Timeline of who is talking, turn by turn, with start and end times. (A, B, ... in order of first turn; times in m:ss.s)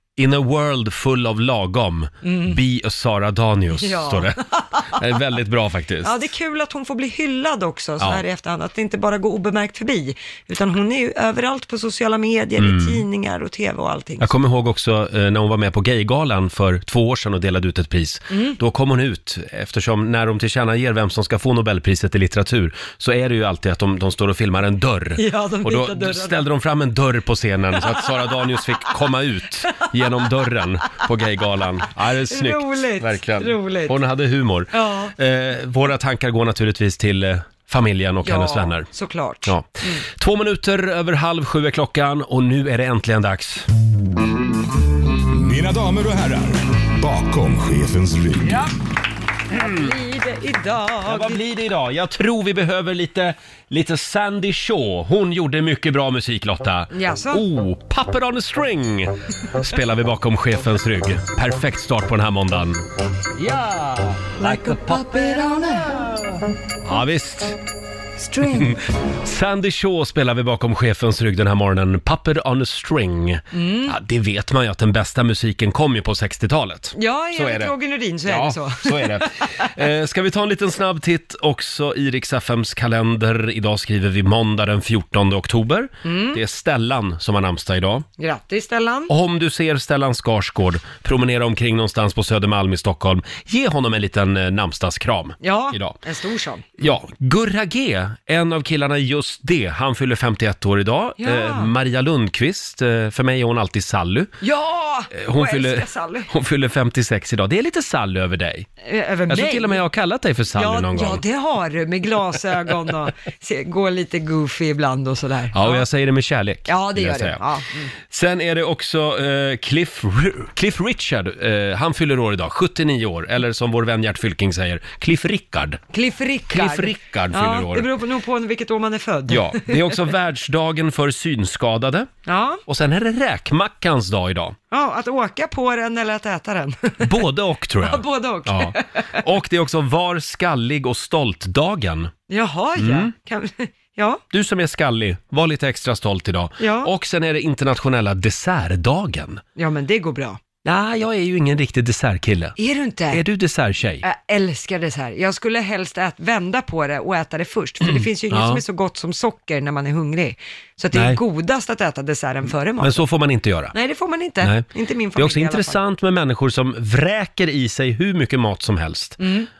0:00.2-0:04.4 A
0:02.2-0:02.6 B
0:03.7-0:04.9 B
0:04.9-0:06.1 A
0:06.0-0:14.3 B
0:12.6-0:13.0 A
0:14.2-0:38.9 A
0:18.3-0:18.6 B
0:25.2-0:26.4 B
0:32.3-0:34.0 B
0:34.7-0:35.1 B
0:38.2-0:40.0 B
0:39.4-0:43.7 A
0:45.3-0:48.6 C
0:49.5-0:49.9 A
0:49.6-0:51.4 B
0:51.0-1:02.8 A
0:56.9-0:57.4 B
1:03.4-1:05.1 A
1:04.4-1:06.0 B
1:06.8-1:07.5 A
1:08.2-1:08.8 B
1:08.6-1:17.7 A
1:13.5-1:13.9 B
1:16.9-1:19.2 B
1:18.2-1:28.0 A
1:26.0-1:26.4 B
1:28.2-1:29.1 B
1:29.1-1:36.0 A
1:35.4-1:36.7 B
1:36.8-1:44.4 A
1:41.2-1:41.7 B
1:44.4-1:46.3 B
1:45.1-1:48.7 A
1:48.8-1:49.8 B
1:49.3-1:51.2 A
1:50.5-1:55.8 B
1:55.5-1:57.4 A
1:56.7-1:57.9 B
1:58.1-2:05.8 A
2:05.9-2:09.9 B
2:06.5-2:07.9 A
2:09.3-2:12.1 A
2:12.2-2:12.6 B
2:12.6-2:14.6 A
2:14.7-2:17.1 B
2:17.0-2:22.1 A
2:17.8-2:18.8 B
2:22.3-2:24.2 B
2:22.8-2:23.1 A
2:24.3-2:29.4 A
2:26.6-2:26.9 B
2:29.6-2:30.4 B
2:30.6-2:32.6 A
2:32.6-2:33.2 B
2:33.1-2:34.0 A
2:34.0-2:43.1 B
2:37.8-2:38.6 A
2:40.9-2:41.2 A
2:42.8-2:43.7 A
2:43.7-2:45.8 B
2:44.4-2:49.2 A
2:49.2-2:49.5 B